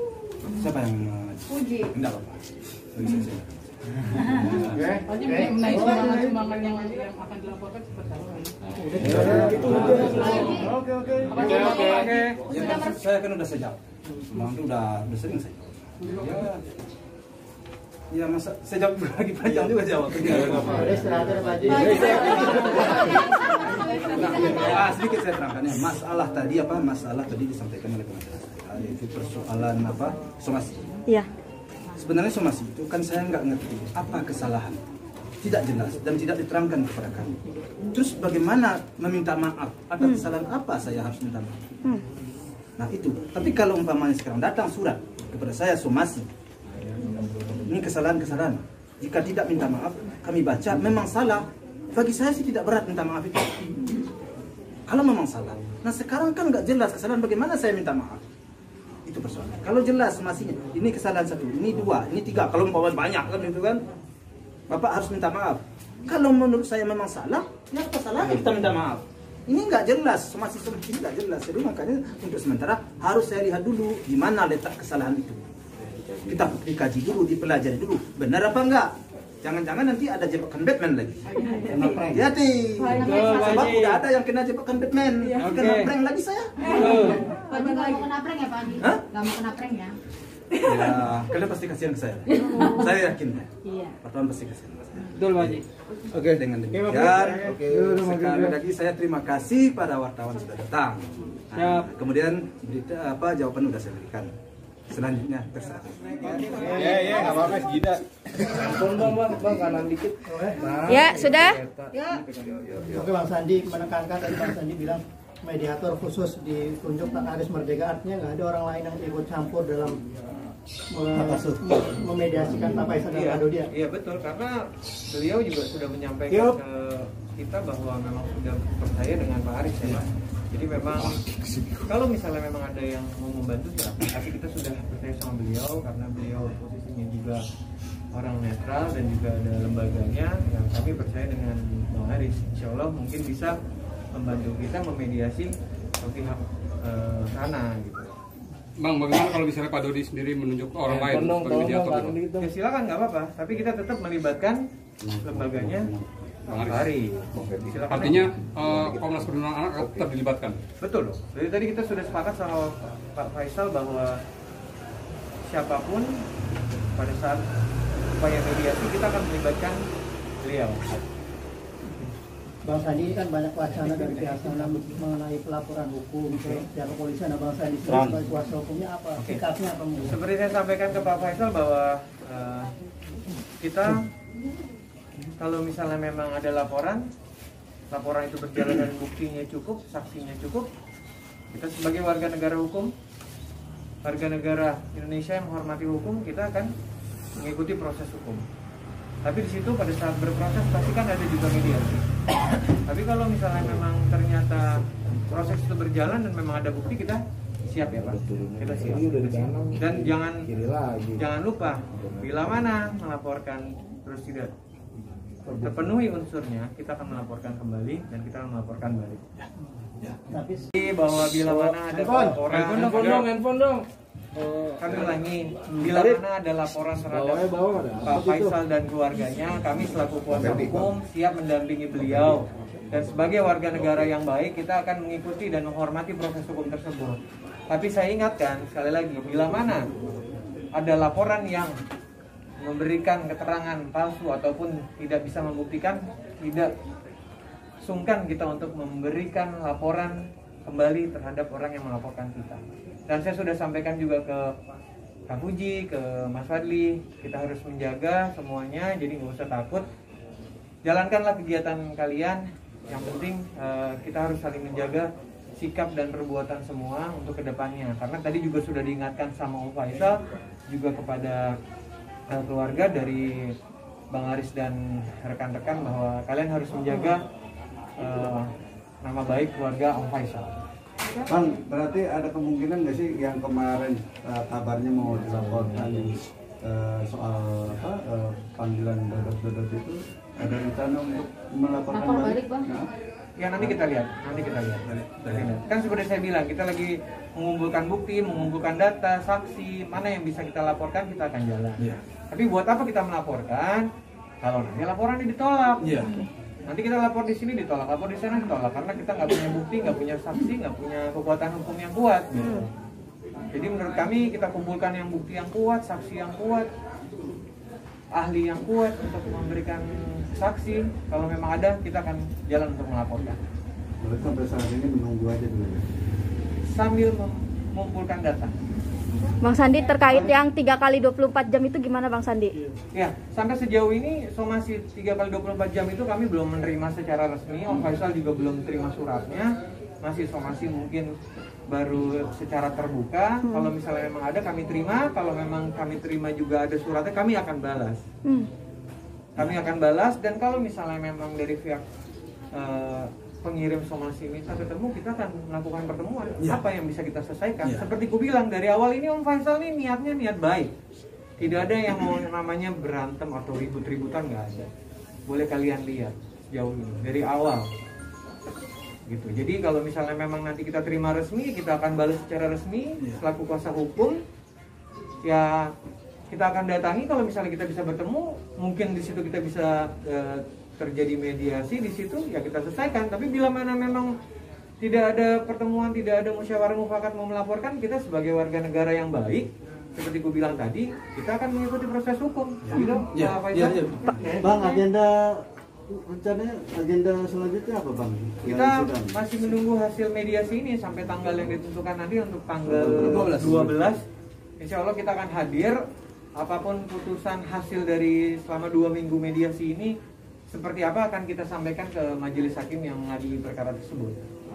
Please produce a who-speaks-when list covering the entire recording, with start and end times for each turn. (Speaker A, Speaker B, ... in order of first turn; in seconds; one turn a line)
Speaker A: 0.5-2.4
Speaker B: 1.6-1.9
Speaker A: 2.9-4.8
Speaker C: 4.7-5.1
Speaker D: 5.1-8.5
Speaker E: 5.2-6.2
Speaker C: 5.7-6.3
Speaker E: 8.8-10.6
Speaker C: 9.0-11.6
Speaker A: 9.0-10.6
Speaker D: 9.7-10.4
Speaker D: 11.4-12.3
Speaker A: 11.4-16.5
Speaker F: 12.0-12.3
Speaker G: 12.6-12.9
Speaker A: 18.1-21.0
Speaker E: 20.5-23.3
Speaker A: 21.9-31.0
Speaker A: 32.0-34.8
Speaker A: 35.4-37.4
Speaker A: 37.9-41.6
Speaker G: 40.0-40.3
Speaker A: 42.8-46.3
Speaker A: 47.0-53.7
Speaker A: 54.9-58.2
Speaker A: 59.1-63.8
Speaker A: 64.7-75.5
Speaker A: 76.2-87.2
Speaker C: 81.6-82.3
Speaker D: 82.8-84.0
Speaker B: 83.0-83.3
Speaker D: 85.4-85.9
Speaker D: 86.7-87.7
Speaker B: 87.5-90.0
Speaker A: 88.8-89.1
Speaker A: 90.6-95.6
Speaker B: 92.5-92.8
Speaker D: 95.2-95.6
Speaker C: 96.1-96.4
Speaker A: 96.2-104.3
Speaker C: 97.0-98.5
Speaker D: 101.5-101.9
Speaker A: 104.9-107.9
Speaker C: 106.5-107.9
Speaker E: 106.5-107.5
Speaker D: 108.5-112.5
Speaker E: 110.3-110.8
Speaker G: 110.9-111.6
Speaker C: 112.7-113.0
Speaker E: 112.8-120.0
Speaker E: 120.9-123.7
Speaker F: 123.1-131.2
Speaker F: 131.9-137.4
Speaker F: 138.1-143.5
Speaker F: 144.2-148.1
Speaker H: 148.8-152.2
Speaker D: 150.9-152.5
Speaker F: 152.4-154.6
Speaker C: 155.0-156.6
Speaker F: 155.2-155.9
Speaker H: 156.5-156.9
Speaker F: 156.7-158.3
Speaker C: 157.3-157.9
Speaker H: 157.9-160.6
Speaker C: 158.6-160.1
Speaker F: 160.8-164.2
Speaker F: 165.5-166.2
Speaker F: 166.9-167.4
Speaker F: 168.1-169.8
Speaker F: 170.4-170.9
Speaker E: 172.6-180.2
Speaker C: 177.9-178.2
Speaker F: 179.2-179.4
Speaker F: 180.0-182.8
Speaker F: 183.6-184.1
Speaker F: 185.4-187.0
Speaker F: 187.9-190.7
Speaker F: 191.5-192.9
Speaker F: 194.0-196.7
Speaker F: 197.4-198.4
Speaker F: 199.2-202.1
Speaker F: 202.7-210.5
Speaker D: 207.9-211.2
Speaker F: 211.2-214.5
Speaker D: 212.0-212.3
Speaker F: 215.5-219.2
Speaker E: 220.3-220.7
Speaker F: 220.7-223.3
Speaker D: 221.6-225.2
Speaker F: 224.8-239.9
Speaker D: 225.8-226.2
Speaker D: 227.1-228.6
Speaker C: 230.3-230.9
Speaker F: 240.8-241.8
Speaker F: 242.6-246.7
Speaker F: 247.8-254.5
Speaker F: 255.3-259.9
Speaker F: 260.8-270.2
Speaker F: 270.7-271.5
Speaker F: 272.3-273.4
Speaker F: 274.1-277.2
Speaker F: 278.0-278.5
Speaker F: 279.0-280.6
Speaker C: 281.3-292.9
Speaker B: 291.9-292.7
Speaker F: 293.4-303.9
Speaker A: 294.9-295.5
Speaker F: 304.4-305.9
Speaker A: 305.8-306.1
Speaker F: 306.7-312.7
Speaker G: 312.4-312.6
Speaker F: 313.5-316.7
Speaker F: 318.2-323.4
Speaker C: 324.0-325.9
Speaker F: 326.8-328.6
Speaker G: 329.4-332.6
Speaker F: 332.9-339.5
Speaker F: 340.0-341.1
Speaker F: 341.7-348.0
Speaker G: 343.4-343.7
Speaker F: 349.4-351.8
Speaker F: 352.5-360.7
Speaker F: 361.4-364.7
Speaker F: 365.3-367.6
Speaker F: 369.1-374.2
Speaker F: 375.2-375.7
Speaker F: 376.3-384.1
Speaker F: 384.8-394.8
Speaker A: 392.7-394.1
Speaker C: 394.2-399.2
Speaker F: 398.4-404.0
Speaker C: 402.6-403.7
Speaker F: 404.6-405.8
Speaker F: 406.4-409.9
Speaker F: 410.5-414.2